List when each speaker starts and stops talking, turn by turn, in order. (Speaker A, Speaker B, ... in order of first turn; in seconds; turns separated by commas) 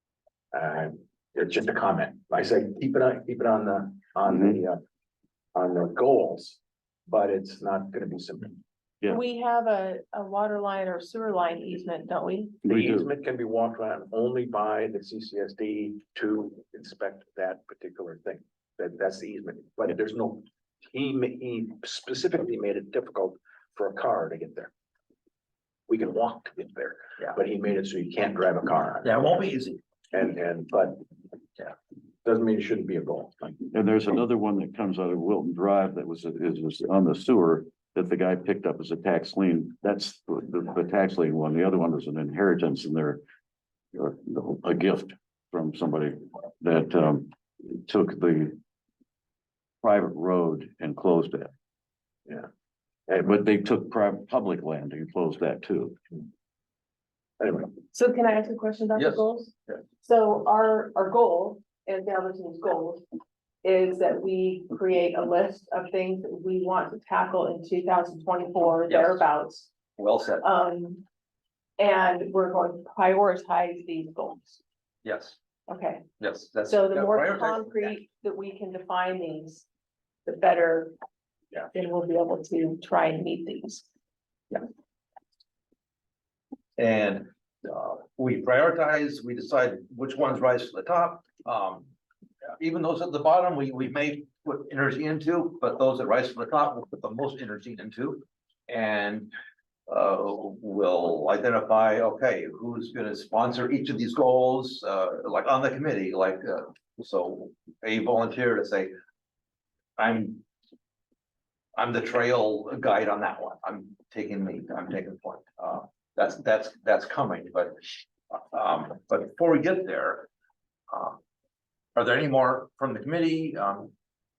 Speaker A: 0.5-4.8, Speaker A: 5.5-8.6, Speaker B: 9.1-12.6, Speaker C: 12.7-13.1, Speaker A: 12.7-24.7, Speaker A: 25.9-29.4, Speaker D: 29.0-29.8, Speaker A: 30.1-31.1, Speaker A: 32.2-33.6, Speaker C: 33.7-43.2, Speaker C: 43.9-48.6, Speaker C: 49.8-51.5, Speaker C: 53.2-56.0, Speaker A: 57.4-57.8, Speaker B: 57.9-63.0, Speaker D: 59.0-59.2, Speaker B: 63.6-69.7, Speaker D: 68.9-69.2, Speaker D: 70.0-70.5, Speaker B: 70.4-71.0, Speaker B: 71.8-74.6, Speaker D: 75.0-75.4, Speaker B: 75.7-76.1, Speaker D: 76.2-78.0, Speaker B: 76.7-79.7, Speaker B: 80.2-80.9, Speaker B: 81.7-83.9, Speaker D: 86.8-91.9, Speaker D: 92.6-99.3, Speaker D: 99.9-108.9, Speaker D: 110.0-110.4, Speaker D: 111.8-120.3, Speaker D: 120.9-121.2, Speaker D: 122.0-123.9